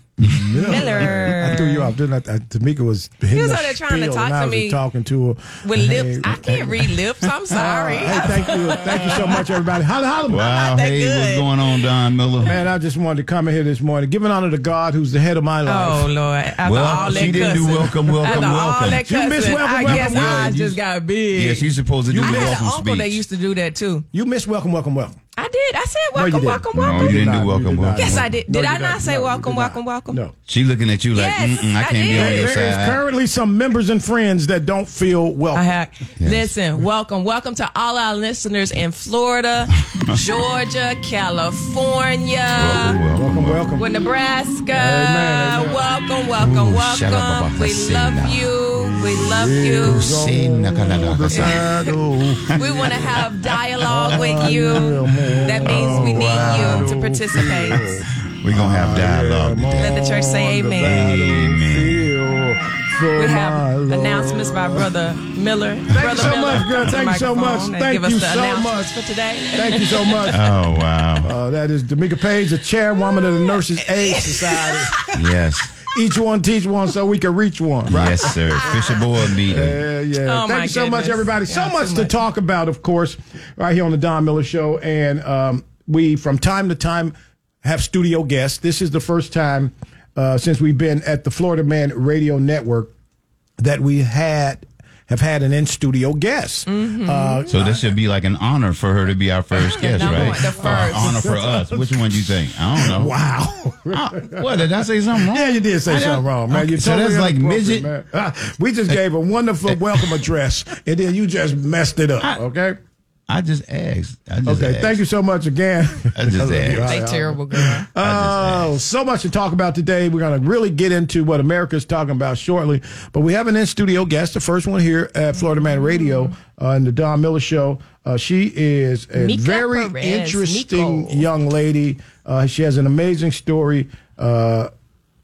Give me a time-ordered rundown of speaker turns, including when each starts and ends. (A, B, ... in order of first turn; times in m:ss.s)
0:00.3-0:07.0 A
0:00.6-0:01.9 B
0:03.3-0:04.8 B
0:05.6-0:09.6 B
0:07.5-0:10.6 A
0:10.3-0:12.6 C
0:10.4-0:11.5 B
0:12.4-0:16.1 A
0:15.6-0:24.0 B
0:16.6-0:19.0 C
0:16.8-0:20.6 A
0:19.8-0:20.8 C
0:21.3-0:23.2 C
0:22.1-0:22.6 A
0:24.1-0:25.2 A
0:25.4-0:27.4 B
0:26.1-0:30.3 A
0:26.7-0:28.4 C
0:27.9-0:30.2 B
0:30.5-0:33.0 C
0:31.1-0:32.6 B
0:32.1-0:35.7 A
0:35.5-0:43.0 B
0:36.2-0:36.5 C
0:42.5-0:43.7 C
0:43.1-0:43.8 A
0:43.8-0:50.1 B
0:44.7-0:45.9 A
0:46.4-0:48.5 C
0:48.8-0:52.8 A
0:49.8-0:51.6 C
0:51.3-0:51.8 B
0:52.6-0:57.9 B
0:52.6-0:53.3 C
0:53.8-1:04.9 A
0:55.7-0:56.9 C
0:58.4-1:00.0 C
0:59.8-1:01.1 B
1:00.8-1:02.1 C
1:03.1-1:10.3 B
1:05.9-1:08.9 A
1:09.5-1:10.4 A
1:10.3-1:11.3 C
1:11.2-1:15.0 A
1:13.1-1:15.1 B
1:15.1-1:15.7 C
1:15.9-1:32.9 A
1:17.9-1:19.8 C
1:18.3-1:19.0 B
1:20.2-1:22.1 B
1:33.6-1:37.8 A
1:36.7-1:37.5 B
1:37.5-1:43.2 C
1:39.7-1:41.3 B
1:40.0-1:44.5 A
1:43.9-1:47.9 C
1:45.2-1:52.8 A
1:49.7-1:50.0 C
1:53.3-1:55.0 C
1:54.4-2:14.7 A
1:56.1-1:57.0 C
1:56.8-1:57.9 B
1:58.0-1:58.7 C
2:05.9-2:06.2 B
2:09.2-2:11.3 B